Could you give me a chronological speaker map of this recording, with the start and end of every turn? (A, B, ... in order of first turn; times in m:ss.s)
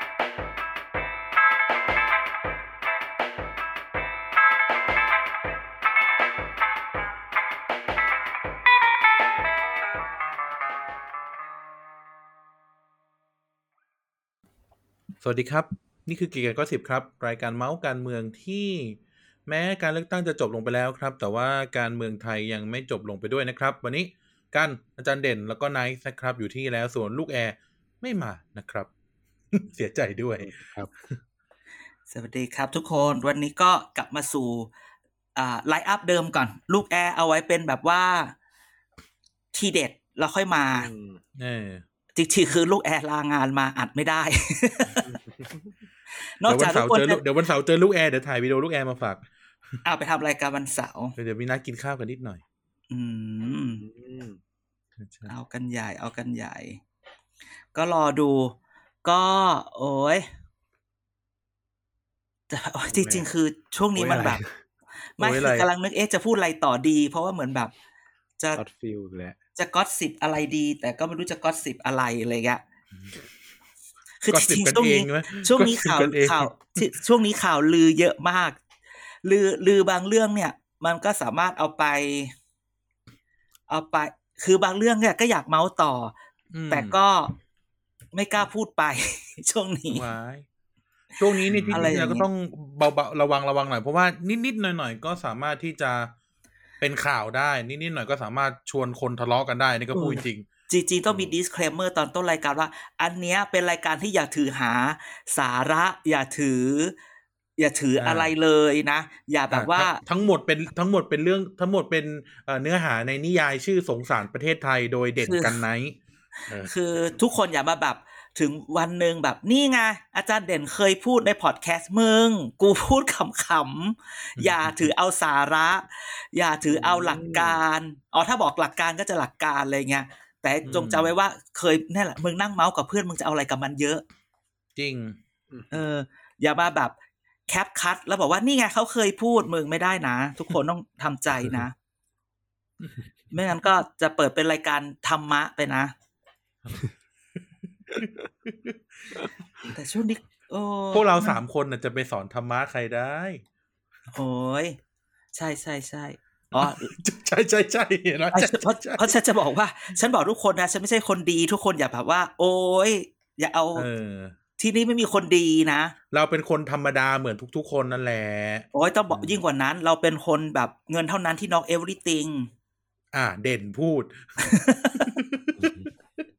0:15.2-0:28.9 A
0:29.5-0:30.5 A
0:30.4-0:30.9 B
0:32.1-0:34.7 C
0:35.4-0:38.4 C
0:39.5-0:40.9 C
0:40.7-0:41.2 B
0:41.4-0:41.8 A
0:42.2-0:45.1 C
0:45.0-0:45.7 B
0:46.4-0:47.2 C
0:46.5-0:49.2 A
0:49.8-0:51.2 C
0:51.2-0:52.4 A
0:52.9-0:53.9 C
0:53.8-0:54.4 B
0:55.0-0:55.3 A
0:55.3-0:56.8 C
0:57.8-1:00.3 C
1:02.5-1:04.4 C
1:03.0-1:03.2 A
1:04.0-1:04.4 B
1:05.2-1:07.7 C
1:05.2-1:05.7 A
1:08.6-1:09.4 B
1:09.6-1:12.6 C
1:14.2-1:18.6 C
1:14.3-1:16.8 A
1:19.2-1:22.3 C
1:23.7-1:26.1 C
1:26.5-1:27.0 A
1:26.7-1:27.3 C
1:28.1-1:30.1 C
1:29.9-1:30.4 A
1:31.2-1:36.1 A
1:31.2-1:32.3 C
1:31.5-1:32.0 B
1:36.8-1:40.4 A
1:40.0-1:47.0 C
1:47.6-1:50.0 C
1:48.0-1:48.3 A
1:49.5-1:56.0 A
1:55.2-1:55.6 C
1:56.7-2:14.0 C
2:04.4-2:04.9 A
2:06.7-2:07.6 B
2:10.6-2:11.1 A
2:14.8-2:15.2 A
2:15.7-2:17.0 C
2:17.5-2:21.7 C
2:23.3-2:25.9 C
2:27.9-2:29.1 A
2:29.7-2:31.4 C
2:30.9-2:33.4 A
2:34.1-2:34.8 C
2:35.4-2:36.9 C
2:36.5-2:39.1 A
2:38.3-2:43.9 C
2:43.8-2:44.4 A
2:44.6-2:46.0 C
2:46.1-2:48.7 A
2:48.7-2:52.5 C
2:49.1-2:49.4 B
2:53.1-2:55.7 A
2:54.4-2:55.2 C
2:55.6-2:55.8 B